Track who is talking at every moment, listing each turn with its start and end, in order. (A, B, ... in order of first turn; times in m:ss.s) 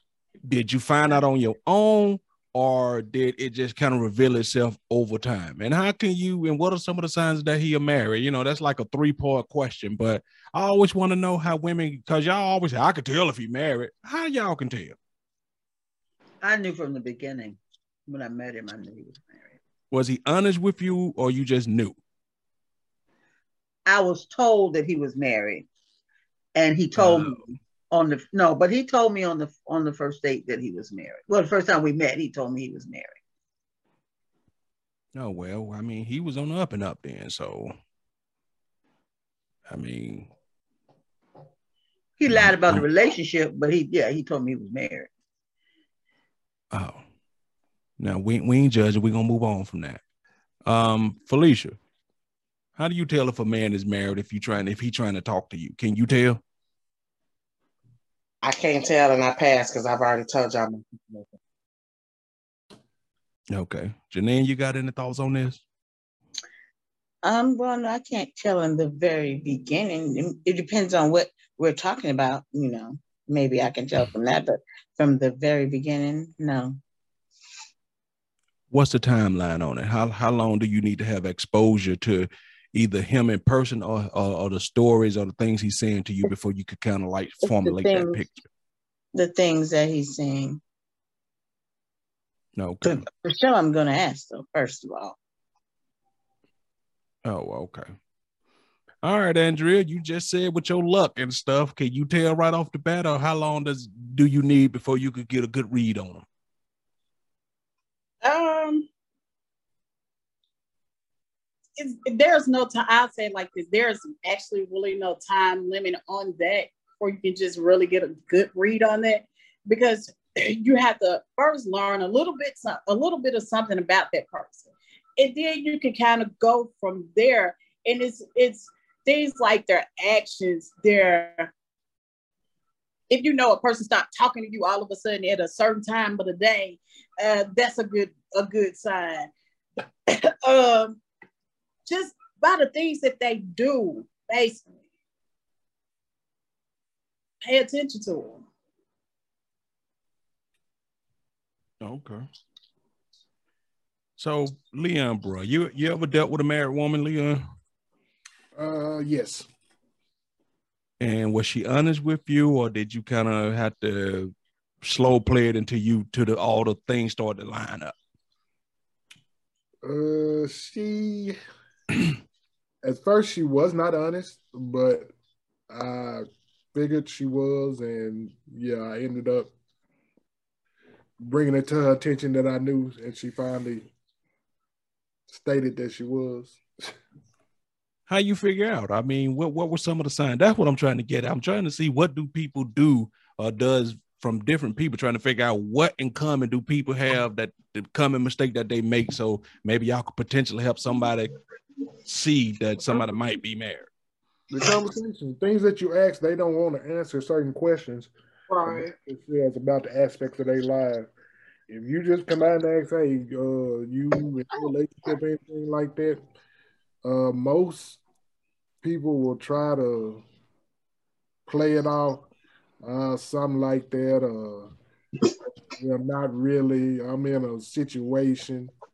0:00.5-0:15.0 A
0:16.4-0:19.4 B
0:19.9-0:22.0 A
0:23.9-0:25.6 B
0:26.6-0:27.4 B
0:27.0-0:27.5 A
0:27.9-0:33.2 B
0:35.1-0:37.7 A
0:39.7-0:40.3 A
0:42.2-0:45.1 B
0:42.3-0:42.8 A
0:46.7-0:47.0 A
0:48.0-0:50.0 A
0:50.6-0:51.8 A
0:52.8-0:56.4 A
0:58.4-1:01.3 C
1:03.5-1:05.6 A
1:07.2-1:16.8 D
1:18.7-1:28.4 A
1:27.4-1:28.2 D
1:29.1-1:30.6 D
1:32.6-1:33.0 A
1:32.8-1:35.2 D
1:37.2-1:37.9 A
1:39.0-1:46.2 A
1:48.2-1:48.8 C
1:51.8-2:11.5 E
2:13.1-2:19.3 E
2:20.1-2:21.0 E
2:21.8-2:24.7 E
2:27.4-2:28.4 E
2:31.8-2:32.2 A
2:34.2-2:37.4 A
2:38.6-2:39.5 F
2:41.0-2:44.3 A
2:44.8-2:47.9 A
2:49.8-2:51.4 F
2:52.8-2:55.1 F
2:55.7-2:59.5 F
3:01.2-3:03.9 F
3:05.3-3:06.9 F
3:08.1-3:21.3 A
3:22.0-3:23.9 A
3:24.5-3:28.1 F
3:28.5-3:28.9 E
3:28.6-3:31.1 F
3:31.7-3:36.2 F
3:37.0-3:38.0 F
3:38.8-3:40.2 F
3:41.5-3:42.3 F
3:42.8-3:44.7 F
3:45.8-3:48.7 F